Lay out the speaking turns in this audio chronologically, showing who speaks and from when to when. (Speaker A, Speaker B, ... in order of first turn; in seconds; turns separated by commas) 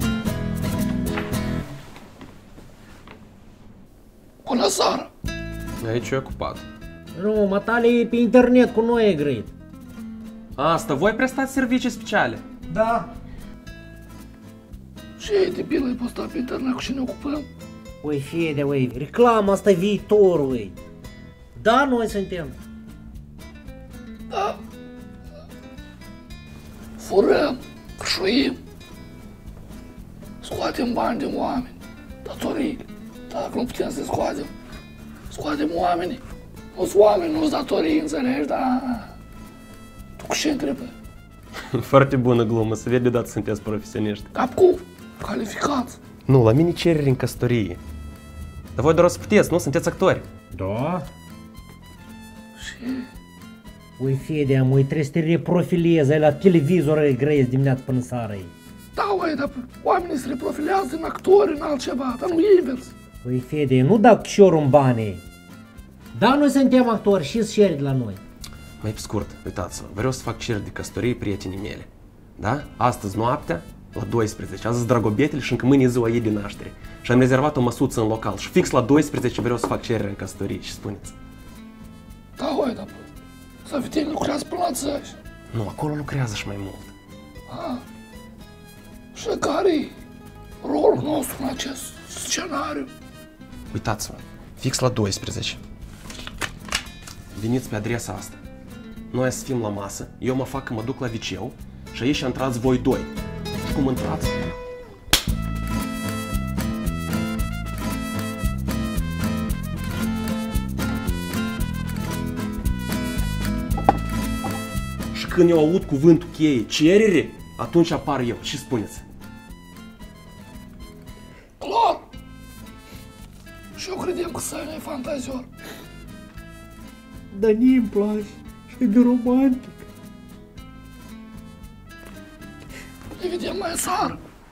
Speaker A: 4.4-5.1, Speaker B: 5.8-6.6, Speaker C: 7.1-9.5, Speaker B: 10.6-12.4, Speaker C: 12.7-13.1, Speaker A: 15.2-17.5, Speaker C: 18.0-20.8, Speaker C: 21.6-22.6, Speaker A: 24.3-24.6, Speaker A: 27.0-28.6, Speaker A: 30.4-31.7, Speaker A: 32.2-34.5, Speaker A: 35.3-36.2, Speaker A: 36.8-39.1, Speaker A: 40.2-40.9, Speaker B: 41.7-44.3, Speaker A: 44.3-46.0, Speaker B: 46.3-47.8, Speaker B: 48.8-50.3, Speaker C: 50.5-51.1, Speaker A: 52.6-53.1, Speaker C: 54.0-58.5, Speaker A: 58.9-62.9, Speaker C: 63.2-65.2, Speaker C: 66.1-68.2, Speaker B: 68.8-81.2, Speaker A: 82.4-83.0, Speaker A: 83.7-85.1, Speaker B: 85.5-86.9, Speaker A: 87.5-87.8, Speaker A: 89.1-89.9, Speaker A: 90.6-92.9, Speaker B: 93.7-95.6, Speaker B: 97.3-98.4, Speaker B: 99.1-104.3, Speaker B: 115.1-119.0, Speaker A: 121.6-122.0, Speaker A: 123.8-125.5, Speaker C: 127.4-128.2, Speaker C: 129.0-129.3, Speaker A: 133.2-134.2